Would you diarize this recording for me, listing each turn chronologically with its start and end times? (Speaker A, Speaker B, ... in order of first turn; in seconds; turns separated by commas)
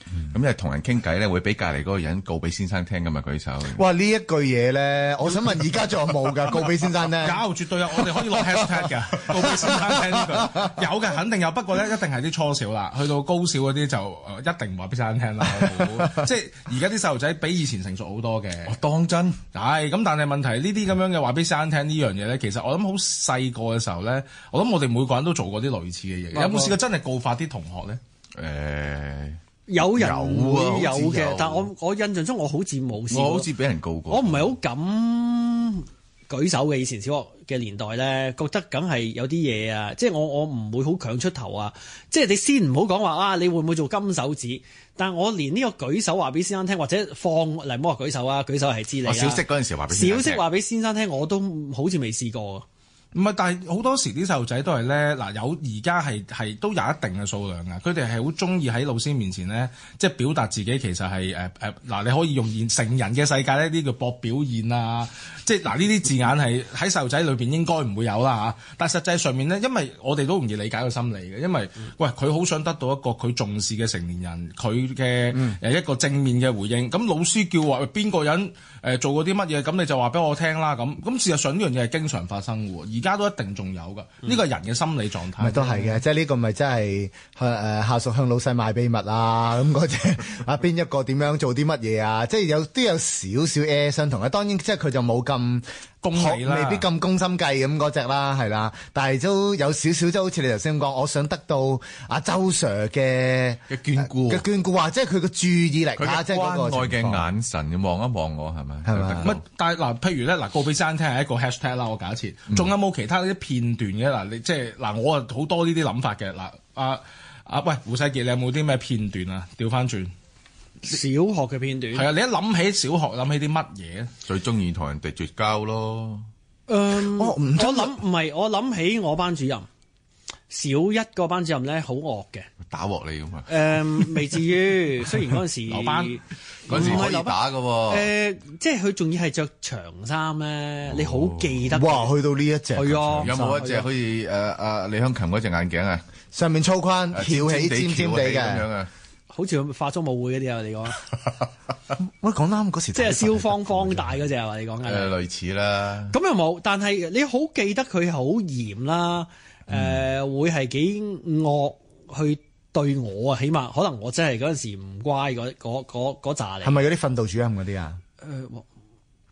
Speaker A: 0.2-3.8, Speaker B: 3.7-7.4, Speaker C: 7.1-18.8, Speaker B: 9.3-10.7, Speaker A: 18.7-19.4, Speaker C: 19.5-28.0, Speaker D: 26.3-26.8, Speaker A: 28.4-31.7, Speaker D: 29.7-33.5, Speaker A: 33.1-34.5, Speaker D: 34.1-52.6, Speaker A: 49.0-50.4, Speaker C: 53.1-86.0, Speaker B: 85.4-107.3, Speaker C: 96.0-96.9, Speaker A: 103.7-104.4, Speaker A: 106.0-109.4, Speaker B: 108.9-109.3, Speaker C: 109.2-120.1, Speaker D: 120.8-122.1, Speaker C: 121.9-124.1, Speaker A: 124.2-126.3, Speaker D: 126.7-129.7, Speaker B: 127.0-127.9, Speaker D: 130.5-132.5, Speaker A: 132.7-134.1, Speaker D: 133.5-142.1, Speaker C: 135.7-137.0, Speaker A: 136.7-138.1, Speaker A: 140.9-141.6, Speaker B: 141.7-143.8, Speaker D: 142.7-143.8, Speaker A: 143.2-146.0, Speaker B: 146.3-148.6, Speaker A: 147.1-148.9, Speaker D: 149.3-151.0, Speaker B: 152.0-153.9, Speaker D: 152.9-155.1, Speaker A: 154.8-156.2, Speaker D: 156.1-166.8, Speaker B: 166.6-168.0, Speaker D: 168.2-168.7